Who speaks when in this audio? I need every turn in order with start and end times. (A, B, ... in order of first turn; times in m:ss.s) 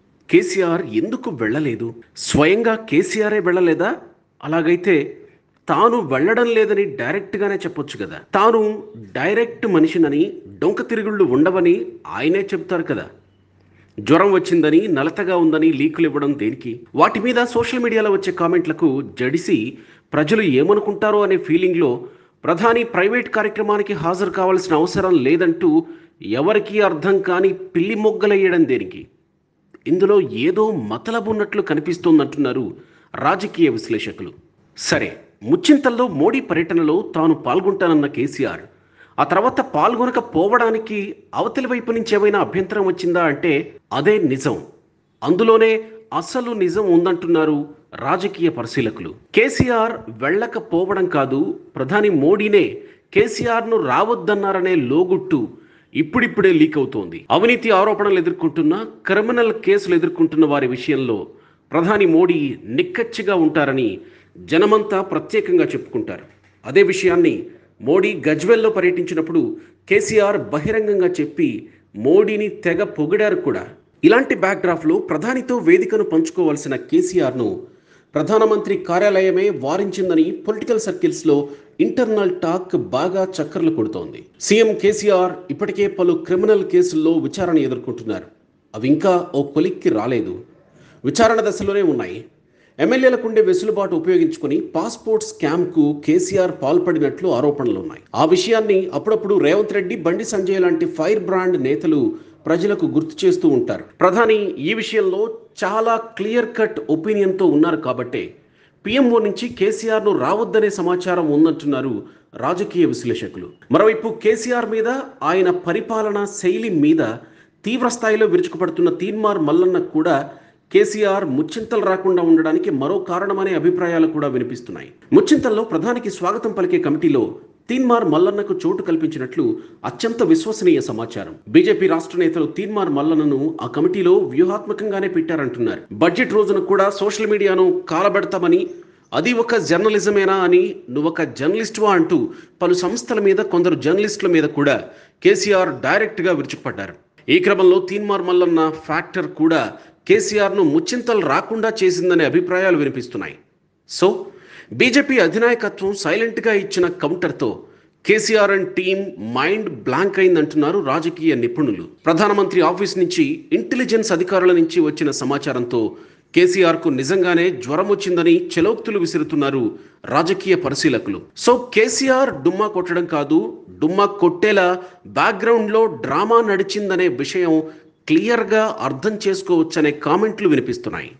0:00.3-0:03.9 A
0:04.4-0:05.0 A
0:05.7-0:13.1 A
0:14.1-0:19.6 A
0:20.1-0:21.9 A
0:22.4-0:25.7 A
0:26.4-0:29.0 A
0:29.9-0:32.7 A
0:33.2-0:34.4 A
0:34.9-0:38.7 A
0:39.2-0:44.6 A
0:45.3-0:55.4 A
0:56.0-1:01.2 A
1:01.7-1:03.9 A
1:04.5-1:11.5 A
1:12.0-1:17.5 A
1:18.2-1:30.4 A
1:31.1-1:32.2 A
1:32.8-1:48.3 A
1:48.8-1:57.1 A
1:57.6-2:00.2 A
2:00.7-2:18.6 A
2:19.2-2:33.4 A
2:34.8-2:37.5 A
2:38.1-2:45.8 A
2:46.4-2:54.7 A
2:55.2-3:01.1 A